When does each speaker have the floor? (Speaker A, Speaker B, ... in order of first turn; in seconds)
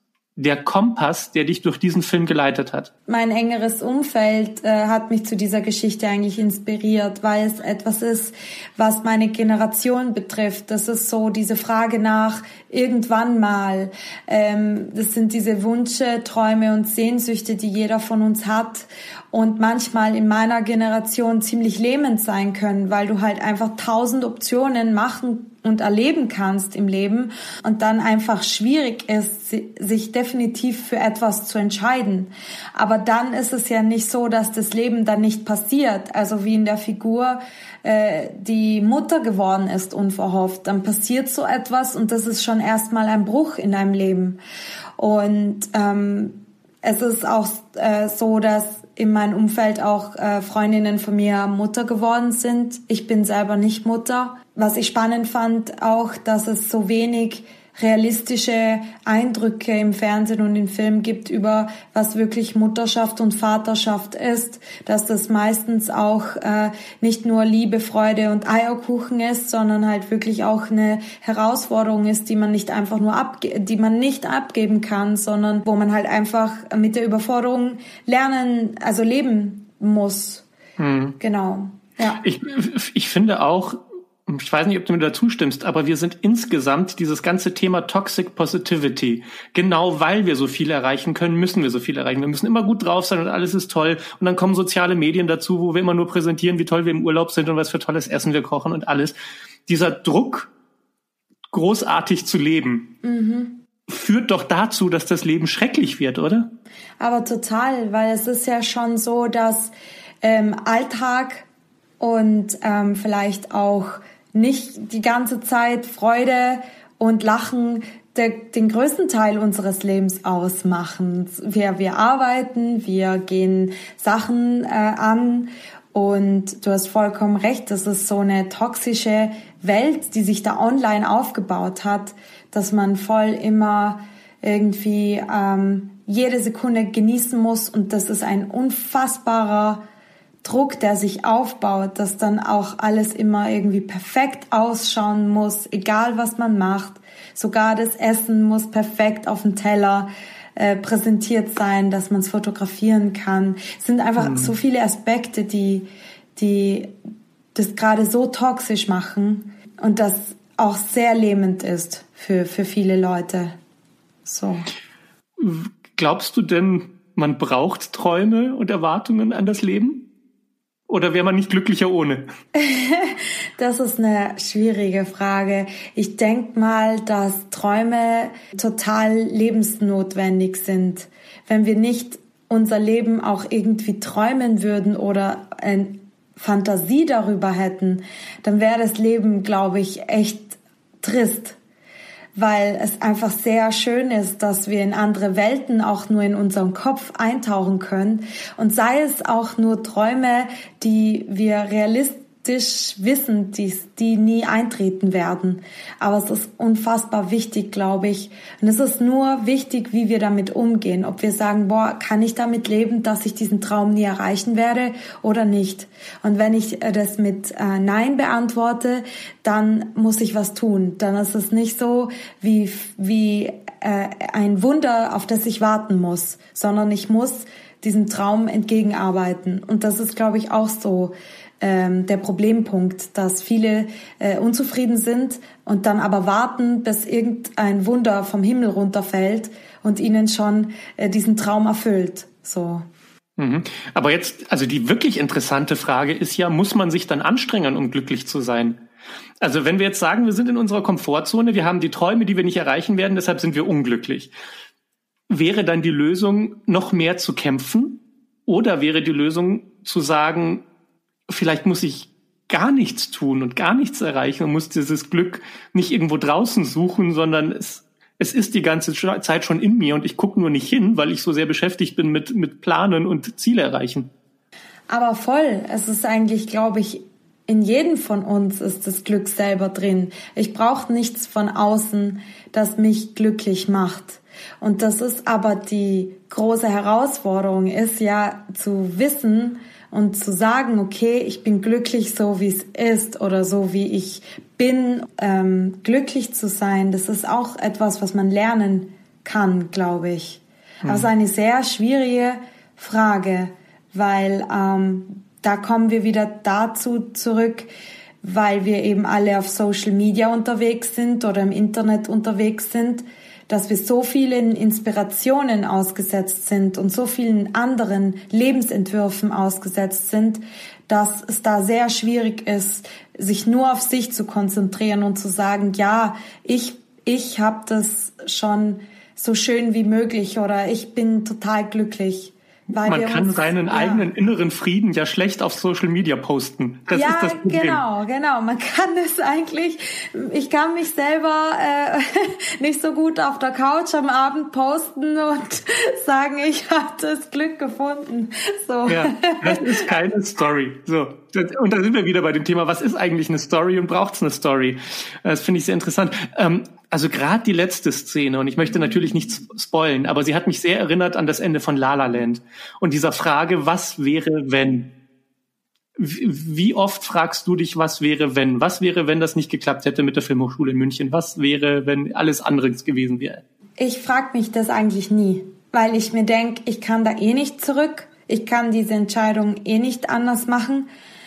Speaker A: 0.3-2.9, 80.8-81.2, 82.2-99.1, 99.7-100.5, 101.5-102.9, 103.9-106.5, 154.2-154.5, 165.4-170.1, 170.9-172.3, 243.4-248.8, 249.4-254.3, 255.3-260.6, 261.3-274.1, 300.8-301.1, 332.8-337.8, 348.9-364.9, 366.0-373.4
Speaker B: 3.1-44.4, 45.0-80.5, 81.2-82.2, 103.0-103.6, 107.0-111.5, 112.0-139.8, 140.4-156.9, 157.5-163.5, 164.2-164.7, 172.5-191.6, 192.3-242.8, 274.9-307.7, 308.2-334.1, 336.9-349.9, 373.8-380.9